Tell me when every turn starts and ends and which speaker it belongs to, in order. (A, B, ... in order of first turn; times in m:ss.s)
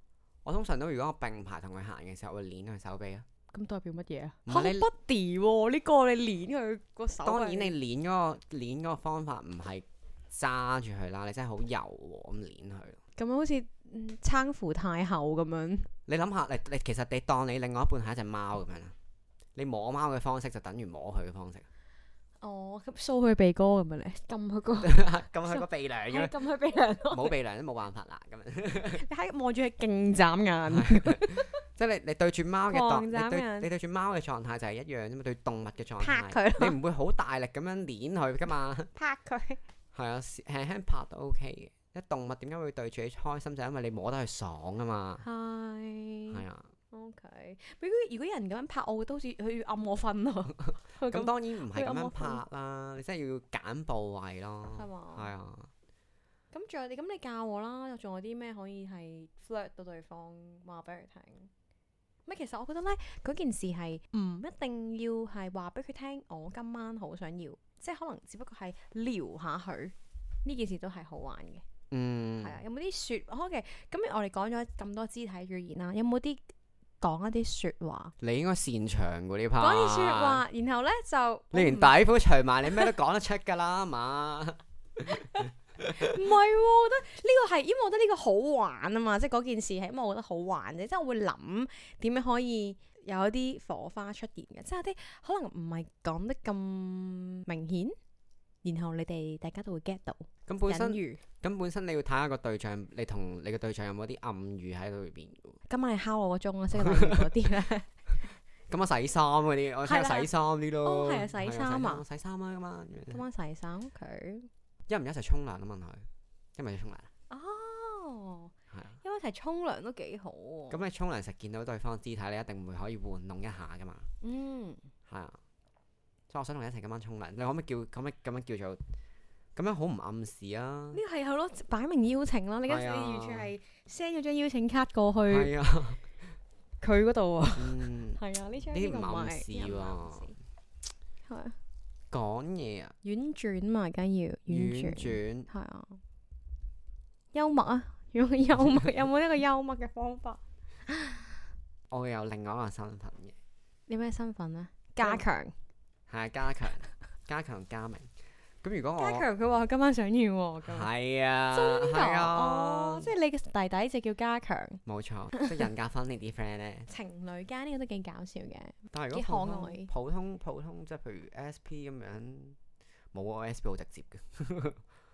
0:00.4-0:03.2 A
0:03.5-0:07.7 B
0:04.4-0:04.9 A
0:07.2-0:13.0 A
0:13.2-0:15.9 B
0:16.1-0:18.9 A
0:19.6-0:21.6 A
0:22.4-0:27.4 B
0:24.8-0:26.3 A
0:27.1-0:29.0 A
0:28.9-0:31.5 B
0:30.7-0:38.9 A
0:32.7-0:33.7 B
0:36.0-0:36.8 B
0:38.9-0:39.6 B
0:39.9-0:45.2 A
0:45.2-0:52.4 B
0:46.3-0:46.7 A
0:51.1-0:55.7 A
0:54.7-0:55.3 B
0:56.5-1:01.5 B
1:02.2-1:09.9 B
1:10.4-1:11.6 B
1:11.9-1:12.6 A
1:12.4-1:18.1 B
1:18.2-1:20.4 A
1:19.6-1:21.9 B
1:21.5-1:26.2 A
1:25.1-1:38.0 B
1:38.6-1:41.2 B
1:40.5-1:45.6 A
1:45.7-1:47.9 B
1:46.7-1:47.3 A
1:48.7-1:53.2 A
1:49.8-1:50.3 B
1:50.8-1:52.0 B
1:53.1-1:54.5 B
1:54.9-1:57.1 A
1:57.3-2:00.8 B
1:58.7-1:59.0 A
2:00.7-2:04.1 A
2:04.2-2:04.8 B
2:05.1-2:05.4 A
2:06.3-2:08.8 A
2:09.6-2:11.0 A
2:10.9-2:15.5 B
2:12.7-2:13.5 A
2:15.3-2:16.1 A
2:16.8-2:20.4 B
2:17.6-2:18.2 A
2:18.7-2:20.3 A
2:21.3-2:21.6 B
2:22.1-2:22.9 A
2:23.0-2:26.0 B
2:24.5-2:25.5 A
2:27.3-2:31.4 B
2:31.9-2:33.4 A
2:33.9-2:35.5 B
2:36.1-2:38.1 A
2:38.6-2:39.3 A
2:39.0-2:40.9 B
2:40.6-2:43.1 A
2:41.5-2:44.8 B
2:44.8-2:46.9 A
2:46.9-2:49.9 B
2:48.9-2:52.6 A
2:53.1-2:54.8 A